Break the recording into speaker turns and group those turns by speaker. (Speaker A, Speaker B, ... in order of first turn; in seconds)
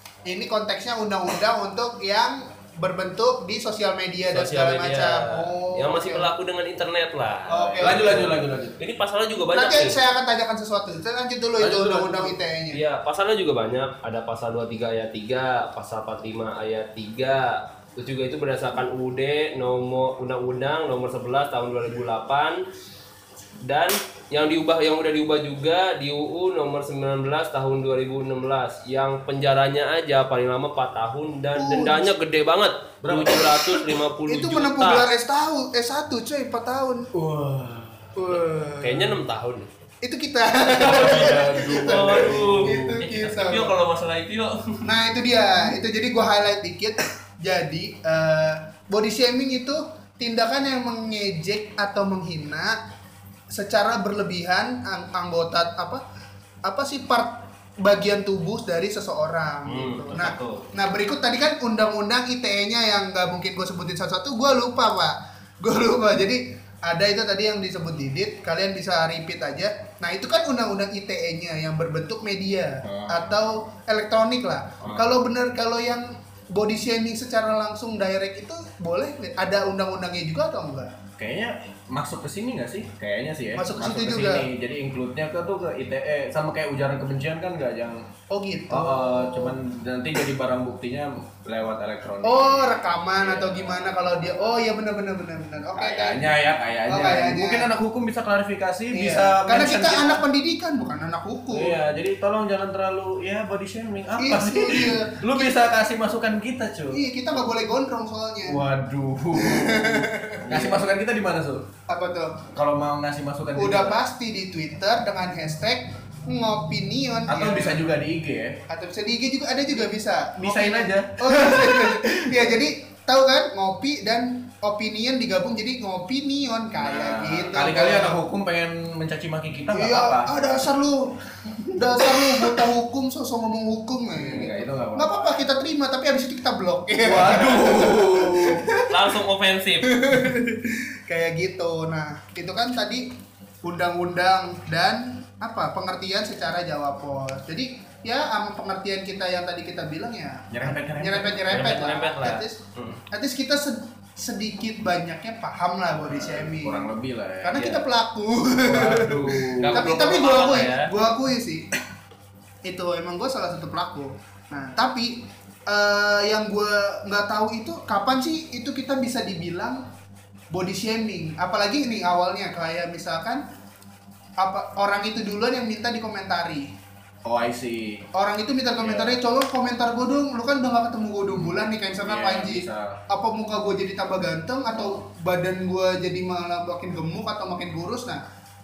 Speaker A: 0.3-6.3, 7.5-8.4, 9.5-12.8, 31.6-32.1, 34.3-37.1, 38.2-39.2, 40.0-43.8, 44.8-52.8, 53.5-56.0, 56.6-81.0, 83.6-84.5, 88.3-89.6, 92.2-96.2, 96.9-97.7, 98.9-101.8, 104.2-105.6, 106.9-108.6, 109.3-110.9, 111.9-112.5, 113.6-117.8, 118.7-128.2, 129.7-131.2, 131.7-139.0, 139.8-152.6, 153.1-156.9, 157.4-161.7, 162.6-169.8, 170.5-173.4, 174.4-176.7, 178.1-188.2
Speaker B: 4.3-10.0, 12.7-22.7, 23.6-35.1, 38.8-39.7, 40.8-44.9, 59.6-60.7, 138.9-140.1, 151.5-153.0, 159.6-160.9
Speaker C: 7.8-8.8, 11.6-12.4, 33.0-33.9, 37.1-38.4, 40.8-42.8, 72.8-73.5, 74.8-75.1, 81.2-88.0, 88.7-94.1, 95.8-100.2, 101.5-107.0, 108.5-111.7, 112.5-114.0, 117.3-118.6, 120.4-122.5, 126.8-130.4, 131.7-132.6, 134.1-135.5, 137.0-138.7, 150.5-151.6, 156.1-157.9, 158.6-159.8, 177.2-178.0, 178.8-179.2, 181.3-183.0